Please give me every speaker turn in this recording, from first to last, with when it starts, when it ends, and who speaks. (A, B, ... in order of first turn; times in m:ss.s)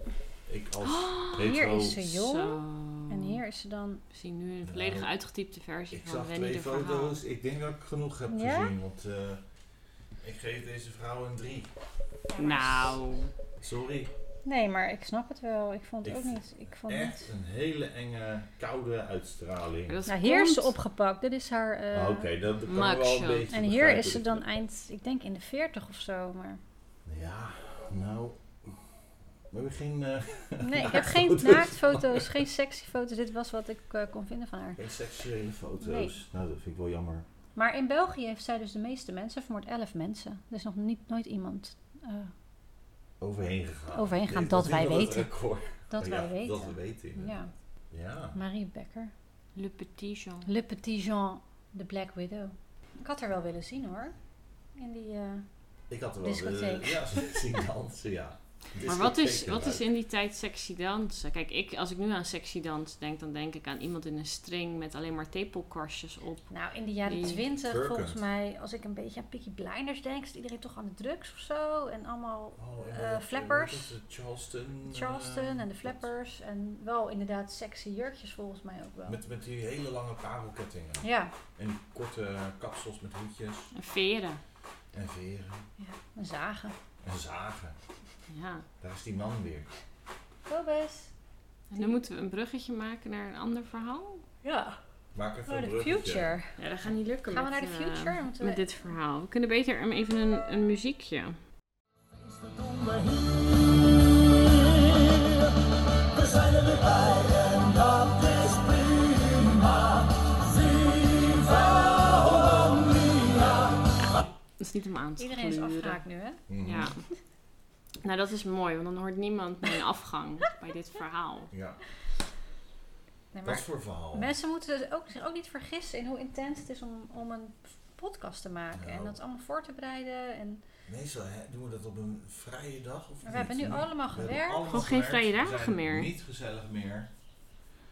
0:00.4-0:02.0 A
0:00.8-0:03.4 B
0:01.3-0:04.0 C
0:04.1-0:07.2 B
0:04.6-0:05.1 A
0:05.9-0:09.4 A
0:08.3-0:08.7 C
0:10.2-0:11.7 A
0:12.3-0:13.0 C
0:12.4-0:13.3 B
0:13.6-0:14.1 A
0:14.4-0:17.3 C
0:16.0-0:20.0 A
0:19.9-0:20.7 B
0:20.1-0:22.3 C
0:21.9-0:24.4 A
0:22.7-0:23.5 B
0:23.5-0:26.6 C
0:27.0-0:29.0 A
0:29.5-0:32.4 A
0:30.6-0:34.8 C
0:34.8-0:37.2 A
0:35.8-0:36.1 C
0:37.6-0:42.3 C
0:43.2-0:48.4 A
0:43.9-0:45.3 C
0:45.9-0:47.5 C
0:48.3-0:49.1 C
0:49.5-0:50.5 B
0:50.4-0:54.2 C
0:54.7-0:55.4 C
0:55.9-0:59.9 A
0:56.2-0:57.3 C
0:58.8-1:06.5 B
1:06.5-1:13.9 C
1:07.0-1:07.4 B
1:07.6-1:08.2 A
1:12.6-1:16.0 A
1:14.8-1:19.2 C
1:19.0-1:23.7 A
1:21.0-1:21.3 C
1:23.7-1:24.4 B
1:24.9-1:25.7 A
1:25.8-1:26.8 C
1:27.0-1:27.8 A
1:28.3-1:28.6 B
1:28.8-1:29.7 A
1:30.5-1:31.1 C
1:31.7-1:34.2 B
1:34.4-1:34.8 C
1:35.1-1:36.4 A
1:35.5-1:36.5 C
1:36.6-1:41.4 B
1:37.3-1:38.8 C
1:51.1-1:53.8 A
1:54.6-1:56.0 B
1:55.2-1:56.4 C
1:56.5-1:56.9 A
1:56.6-1:57.0 B
1:58.0-2:01.5 B
2:01.5-2:01.8 A
2:03.3-2:10.6 C
2:03.4-2:04.3 A
2:08.7-2:09.2 A
2:10.8-2:17.1 A
2:13.2-2:14.6 C
2:14.6-2:16.1 B